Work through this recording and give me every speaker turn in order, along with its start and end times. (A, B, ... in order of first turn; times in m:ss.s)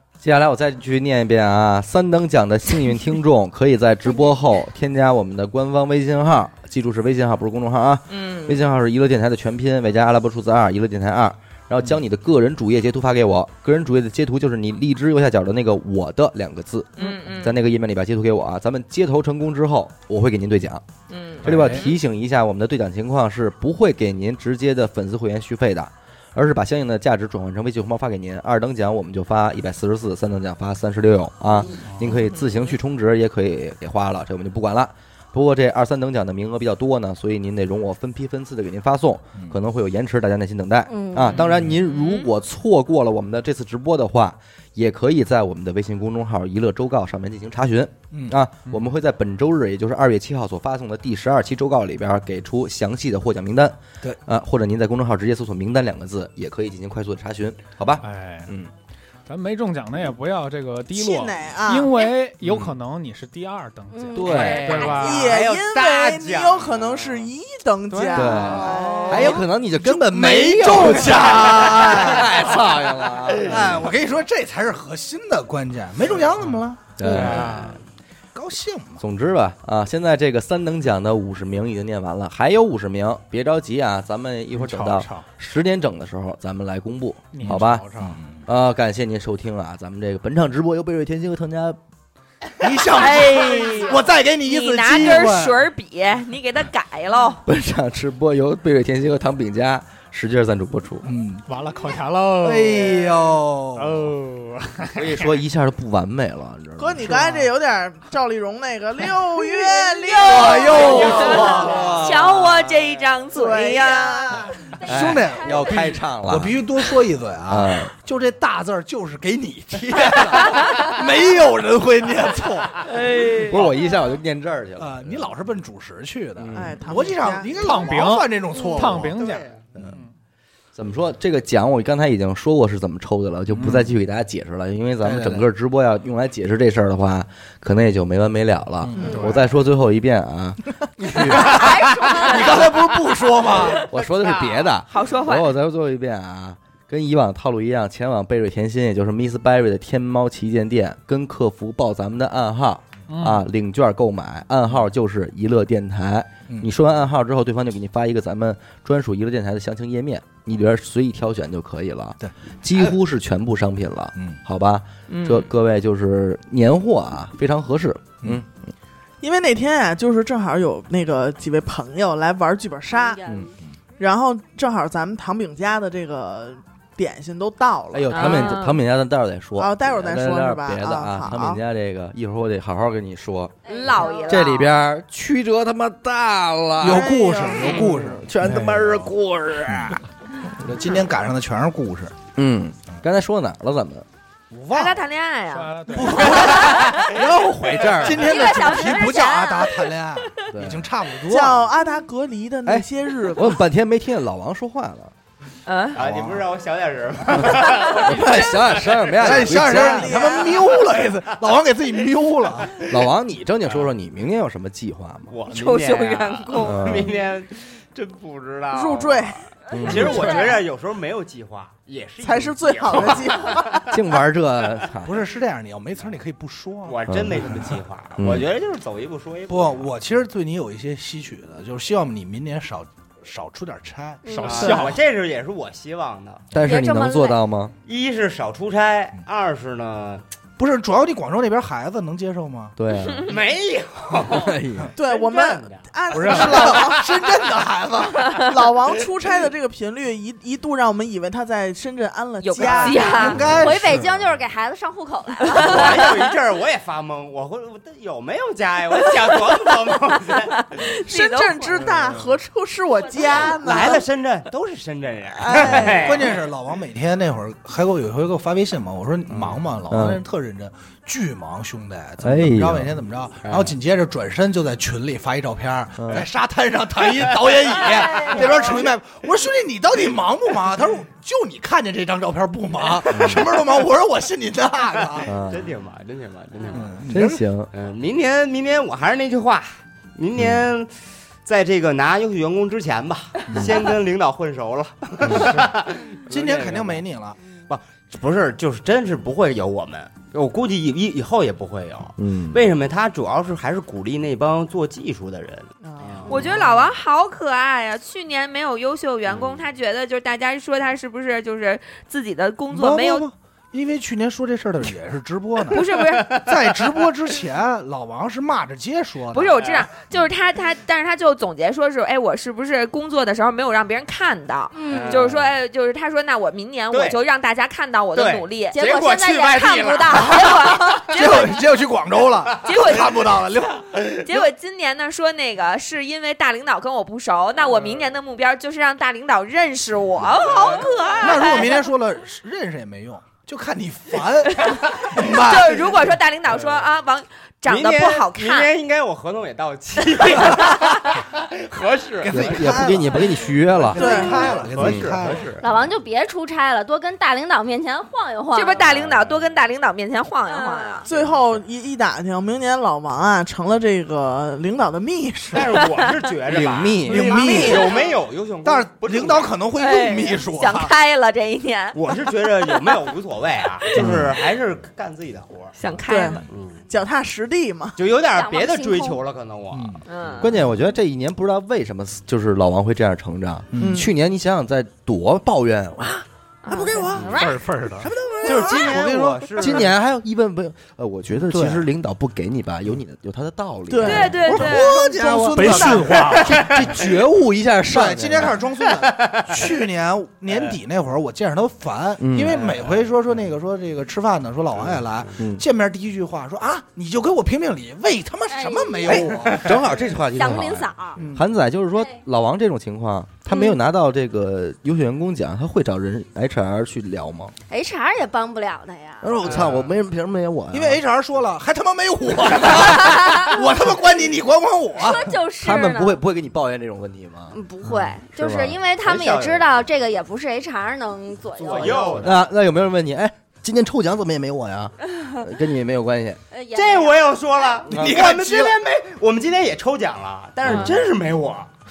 0:00.2-0:20.8 A
0:08.1-0:08.6 B
0:17.0-0:17.5 B
0:21.1-0:21.9 B
0:21.4-0:58.7 A
0:21.4-0:21.9 C
0:32.1-0:32.5 B
0:40.9-0:41.4 D
0:41.3-0:41.8 C
0:41.8-0:42.3 B
0:48.1-0:48.4 E
0:58.0-0:58.5 C
0:59.3-1:05.4 C
1:00.9-1:01.9 F
1:02.4-1:02.7 A
1:03.9-1:05.1 D
1:04.1-1:04.7 A
1:04.3-1:07.0 G
1:04.9-1:09.1 F
1:07.9-1:09.1 C
1:08.1-1:13.9 A
1:08.7-1:12.5 E
1:13.4-1:17.6 E
1:16.5-1:17.8 C
1:17.0-1:17.8 A
1:18.3-1:19.0 E
1:19.0-1:31.8 A
1:24.5-1:25.3 C
1:27.3-1:28.1 C
1:27.4-1:28.4 E
1:32.6-1:35.7 E
1:32.9-1:37.4 B
1:37.4-1:41.1 A
1:41.0-1:41.4 E
1:41.5-1:43.2 C
1:42.4-1:44.1 E
1:43.7-1:45.3 C
1:45.0-1:47.4 A
1:46.8-1:51.5 F
1:50.2-1:51.9 E
1:50.3-1:54.5 B
1:50.7-1:52.6 A
1:53.3-1:54.5 F
1:54.8-2:02.9 E
1:54.9-1:56.6 A
1:57.5-1:57.9 A
2:02.9-2:03.6 B
2:03.2-2:05.3 A
2:04.8-2:09.2 E
2:06.4-2:06.8 A
2:06.6-2:07.5 F
2:07.6-2:10.1 C
2:08.5-2:08.9 D
2:09.1-2:09.7 G
2:10.7-2:21.8 A
2:15.0-2:15.4 E
2:18.8-2:19.4 E
2:19.0-2:19.4 C
2:21.0-2:23.9 E
2:21.3-2:22.7 D
2:23.8-2:48.7 A
2:24.0-2:24.6 G
2:24.9-2:25.5 B
2:33.1-2:33.4 C
2:42.2-2:43.0 E
2:45.1-2:45.5 B
2:49.2-2:53.2 F
2:52.9-2:53.5 D
2:53.3-2:53.5 A
2:54.0-2:58.5 F
2:57.9-3:03.5 A
2:58.1-2:58.8 B
2:59.6-3:01.6 F
3:03.7-3:04.4 D
3:03.7-3:04.7 B
3:04.3-3:07.1 A
3:06.8-3:08.3 E
3:06.9-3:07.8 F
3:07.8-3:10.0 A
3:08.4-3:08.8 C
3:10.6-3:12.2 E
3:12.4-3:14.0 A
3:14.5-3:15.0 E
3:14.7-3:17.1 B
3:15.5-3:16.5 C
3:15.9-3:21.7 E
3:17.0-3:18.4 A
3:18.2-3:19.9 D
3:20.5-3:20.9 A
3:21.3-3:23.6 F
3:22.7-3:25.1 A
3:25.7-3:26.0 B
3:26.0-3:29.3 G
3:26.0-3:26.4 E
3:27.9-3:30.2 A
3:29.1-3:32.8 E
3:29.6-3:30.6 F
3:32.9-3:35.4 A
3:35.3-3:43.8 G
3:35.5-3:36.7 B
3:36.6-3:37.1 A
3:38.7-3:39.4 F
3:39.7-3:40.6 D
3:39.7-3:40.4 A
3:42.2-3:43.9 F
3:43.9-3:45.2 A
3:45.0-3:47.8 E
3:46.9-3:49.9 G
3:47.1-3:48.5 A
3:49.5-3:54.7 E
3:54.2-3:54.8 D
3:54.3-3:55.0 C
3:54.4-3:56.4 G
3:56.5-3:57.7 A
3:56.6-3:57.4 D
3:57.8-4:00.2 G
4:00.6-4:02.7 E
4:02.8-4:03.4 A
4:03.2-4:05.9 G
4:04.3-4:04.9 A
4:05.0-4:07.0 F
4:06.1-4:08.4 E
4:06.2-4:06.7 C
4:08.4-4:13.4 F
4:12.4-4:13.4 B
4:12.6-4:14.1 E
4:13.4-4:16.1 D
4:15.5-4:20.6 G
4:21.0-4:21.8 B
4:21.1-4:24.0 F
4:21.8-4:22.2 G
4:23.1-4:23.4 D
4:23.2-4:26.4 G
4:25.4-4:26.1 F
4:25.8-4:45.3 E
4:29.3-4:29.6 G
4:29.9-4:30.2 A
4:32.2-4:32.9 A
4:33.4-4:33.7 G
4:36.0-4:36.3 A
4:37.8-4:38.9 D
4:43.1-4:43.6 A
4:45.2-4:47.0 G
4:45.3-4:45.7 A
4:46.7-4:47.4 E
4:47.1-4:47.7 A
4:47.7-4:57.1 G
4:50.4-4:50.7 A
4:56.3-4:57.4 E
4:57.7-5:06.6 G
5:02.2-5:02.6 A
5:05.8-5:06.2 F
5:06.3-5:13.3 B
5:09.3-5:09.6 G
5:12.7-5:19.6 E
5:15.7-5:16.6 B
5:15.9-5:16.2 G
5:19.3-5:28.8 B
5:19.5-5:20.3 G
5:24.7-5:25.2 D
5:24.9-5:25.6 G
5:26.9-5:27.2 G
5:28.1-5:31.0 G
5:28.7-5:30.8 D
5:30.2-5:31.6 B
5:31.1-5:34.5 E
5:32.6-5:33.5 B
5:34.2-5:41.9 B
5:37.6-5:38.0 G
5:40.3-5:41.1 G
5:41.2-5:46.2 E
5:45.2-5:48.7 B
5:46.5-5:46.9 G
5:47.6-5:52.5 G
5:52.2-5:55.5 E
5:52.3-5:54.0 A
5:54.0-5:54.4 F
5:54.0-5:55.6 G
5:54.0-5:54.3 D
5:54.8-5:55.2 A
5:55.6-5:58.8 D
5:58.5-6:01.1 B
5:58.8-5:59.5 G
6:00.5-6:01.0 D
6:01.1-6:05.8 F
6:05.5-6:09.6 G
6:06.5-6:07.8 A
6:07.0-6:08.0 E
6:07.8-6:08.2 D
6:08.6-6:10.9 E
6:09.8-6:13.0 B
6:11.9-6:15.8 G
6:13.9-6:14.3 E
6:15.8-6:16.5 B
6:16.1-6:18.0 F
6:16.5-6:16.8 G
6:18.0-6:20.4 G
6:18.2-6:19.3 D
6:19.7-6:20.0 E
6:20.1-6:20.6 B
6:20.4-6:26.2 A
6:23.7-6:24.0 E
6:23.8-6:24.1 F
6:26.6-6:27.6 B
6:26.7-6:27.1 F
6:26.7-6:27.3 E
6:27.2-6:28.1 H
6:28.0-6:29.9 E
6:28.4-6:29.9 G
6:29.6-6:38.6 A
6:31.4-6:31.8 E
6:33.9-6:34.4 F
6:34.1-6:35.0 B
6:34.1-6:34.7 D
6:34.2-6:36.9 E
6:35.5-6:36.9 H
6:37.9-6:49.8 E
6:39.0-6:39.7 G
6:42.2-6:42.6 A
6:42.5-6:43.1 G
6:45.4-6:45.6 A
6:48.5-6:49.2 D
6:49.1-6:57.5 A
6:49.4-6:50.0 G
6:50.3-6:51.2 D
6:51.2-6:51.4 E
6:51.9-6:52.2 D
6:57.7-6:59.4 D
6:59.2-7:01.0 A
6:59.4-6:59.9 G
7:00.7-7:05.4 E
7:04.9-7:06.2 D
7:05.6-7:07.6 A
7:07.5-7:12.3 D
7:08.3-7:08.8 A
7:09.0-7:09.8 G
7:11.6-7:12.4 G
7:12.1-7:16.4 A
7:16.5-7:17.7 D
7:16.7-7:21.7 G
7:17.9-7:18.8 E